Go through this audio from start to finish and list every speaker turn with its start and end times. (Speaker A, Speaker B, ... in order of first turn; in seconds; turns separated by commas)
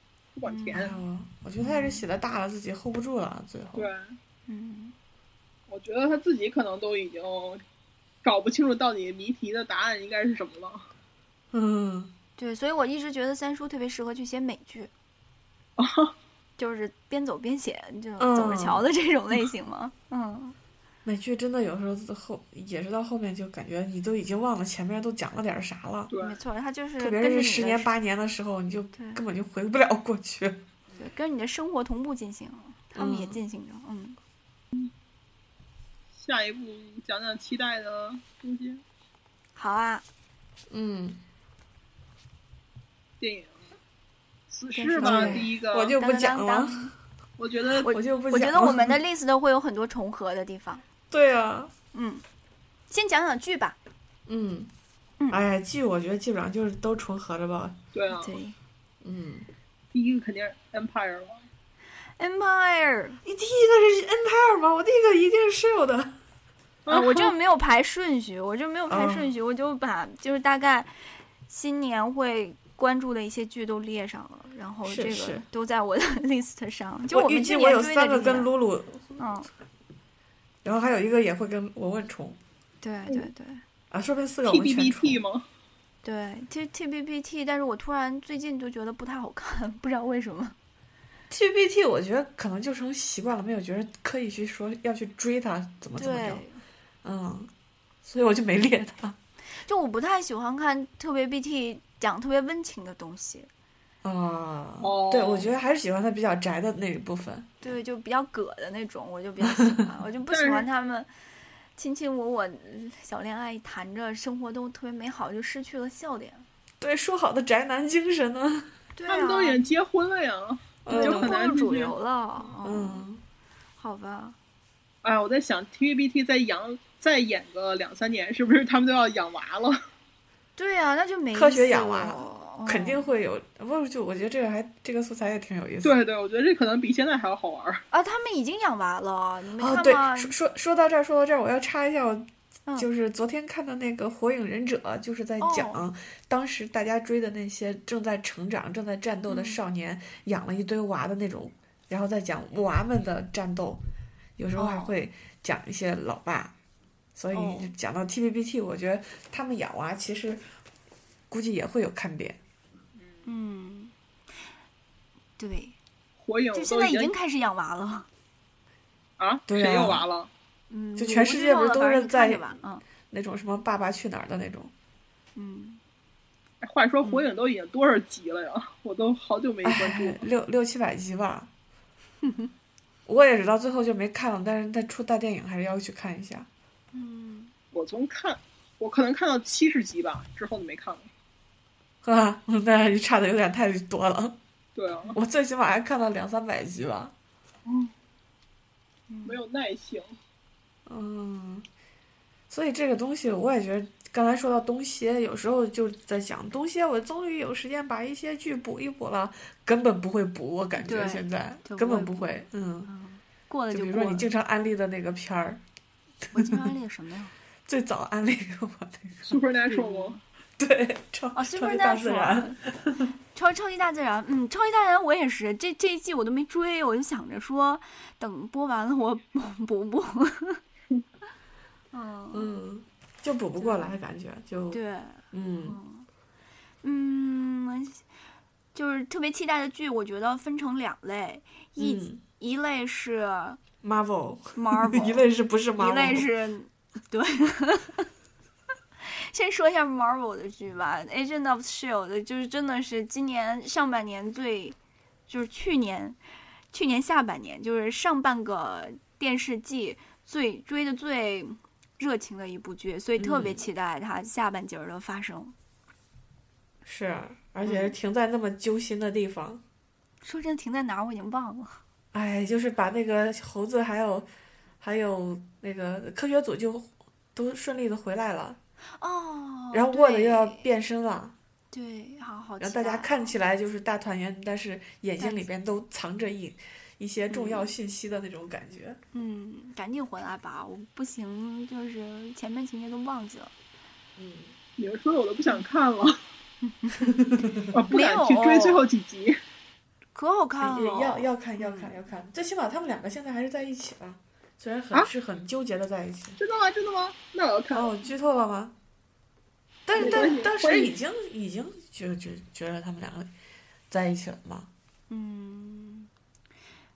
Speaker A: 0.3-0.9, Speaker B: 0.5-0.9, Speaker C: 0.7-3.9, Speaker B: 1.6-2.0, Speaker A: 3.7-4.2, Speaker B: 4.5-4.9, Speaker A: 5.7-7.6, Speaker A: 8.2-10.8, Speaker C: 11.5-12.1, Speaker B: 12.4-14.9, Speaker A: 15.8-16.1, Speaker B: 16.6-20.6, Speaker C: 18.2-18.9, Speaker C: 21.0-26.1, Speaker A: 26.1-26.4, Speaker B: 26.2-27.9, Speaker C: 27.0-30.6, Speaker B: 28.9-29.2, Speaker B: 31.0-34.2, Speaker C: 33.0-33.4, Speaker A: 36.1-38.8, Speaker B: 39.5-40.0, Speaker C: 40.7-41.2, Speaker A: 43.2-43.7, Speaker A: 44.5-46.0, Speaker B: 44.7-46.9, Speaker C: 45.0-46.9, Speaker A: 47.4-47.9, Speaker B: 47.8-50.8, Speaker C: 47.8-49.0, Speaker C: 51.1-51.7, Speaker B: 51.9-52.2, Speaker B: 52.9-53.8, Speaker C: 54.3-54.7, Speaker C: 55.3-57.8, Speaker A: 57.9-58.3, Speaker B: 58.1-58.5, Speaker C: 59.0-59.5, Speaker A: 59.9-61.5, Speaker B: 62.2-63.2, Speaker C: 63.2-66.2, Speaker A: 66.8-67.3, Speaker B: 66.9-78.5, Speaker C: 68.9-69.3, Speaker C: 74.8-75.4, Speaker C: 77.1-79.2, Speaker B: 79.2-79.5, Speaker C: 80.6-82.4, Speaker B: 82.8-83.6, Speaker C: 83.9-85.2, Speaker A: 84.5-85.5, Speaker B: 86.0-90.5, Speaker C: 91.3-96.4, Speaker B: 95.9-96.6, Speaker C: 97.0-97.5, Speaker C: 98.0-99.2, Speaker B: 99.6-103.5, Speaker C: 104.0-107.5, Speaker A: 104.8-105.5, Speaker B: 107.6-111.1, Speaker A: 110.3-110.7, Speaker B: 111.8-116.4, Speaker C: 116.8-118.7, Speaker B: 118.9-119.6, Speaker A: 119.0-121.9, Speaker C: 120.8-121.3, Speaker B: 120.9-123.0, Speaker C: 122.6-123.2, Speaker B: 123.8-124.3, Speaker A: 125.0-129.8, Speaker B: 130.6-133.1, Speaker C: 131.3-136.0, Speaker A: 135.8-137.8, Speaker B: 137.9-140.3, Speaker C: 139.6-153.8, Speaker B: 145.4-145.8, Speaker B: 149.3-149.6, Speaker C: 154.4-156.5, Speaker B: 154.6-154.9, Speaker C: 157.2-160.4, Speaker B: 157.3-157.7, Speaker C: 161.3-162.4, Speaker A: 163.0-163.2, Speaker B: 163.2-163.9, Speaker B: 165.4-165.8, Speaker A: 166.2-167.1, Speaker B: 166.5-168.1, Speaker A: 169.2-170.3, Speaker C: 169.5-170.0, Speaker B: 170.7-172.8, Speaker C: 170.9-172.4, Speaker C: 173.1-174.7, Speaker B: 175.3-175.8, Speaker A: 176.6-180.2, Speaker C: 179.6-181.5, Speaker B: 182.2-182.5, Speaker C: 183.1-186.5, Speaker B: 186.9-187.5, Speaker A: 187.7-191.1, Speaker C: 192.0-194.4, Speaker A: 194.8-195.2, Speaker C: 195.1-197.1, Speaker B: 199.1-199.4, Speaker A: 199.2-200.1, Speaker C: 200.8-201.7, Speaker C: 202.5-212.9, Speaker B: 210.8-214.3, Speaker C: 213.7-215.6, Speaker C: 216.3-216.7, Speaker B: 216.3-217.3, Speaker C: 217.7-219.4, Speaker A: 219.2-220.2, Speaker B: 219.7-220.2, Speaker C: 220.6-223.1, Speaker B: 221.3-222.6, Speaker B: 223.3-230.6, Speaker B: 231.9-232.6, Speaker C: 232.3-234.8, Speaker B: 233.6-234.0, Speaker B: 234.7-236.1, Speaker C: 235.3-235.8, Speaker B: 236.8-238.0, Speaker B: 238.7-243.6, Speaker C: 241.8-242.2, Speaker C: 243.8-246.3, Speaker B: 244.5-245.2, Speaker B: 245.8-248.1, Speaker B: 249.0-254.8, Speaker B: 255.3-256.2, Speaker B: 256.7-265.5, Speaker C: 263.2-263.6, Speaker C: 266.8-269.6, Speaker B: 267.6-267.9, Speaker B: 270.2-271.8, Speaker C: 272.1-274.3, Speaker C: 274.8-278.6, Speaker B: 279.0-280.7, Speaker C: 279.7-281.3, Speaker B: 281.7-283.3, Speaker C: 282.6-289.0, Speaker B: 285.2-285.4, Speaker B: 287.3-287.7, Speaker B: 289.1-293.5, Speaker C: 294.2-294.5, Speaker A: 294.8-296.2, Speaker B: 296.6-297.1, Speaker C: 297.0-297.7, Speaker A: 297.7-299.4, Speaker B: 297.9-298.8, Speaker B: 300.1-301.9, Speaker C: 300.6-306.4, Speaker A: 306.4-307.9, Speaker C: 307.7-308.7, Speaker C: 309.9-313.3, Speaker A: 309.9-310.9, Speaker B: 309.9-310.4, Speaker C: 313.9-314.7, Speaker B: 315.1-316.1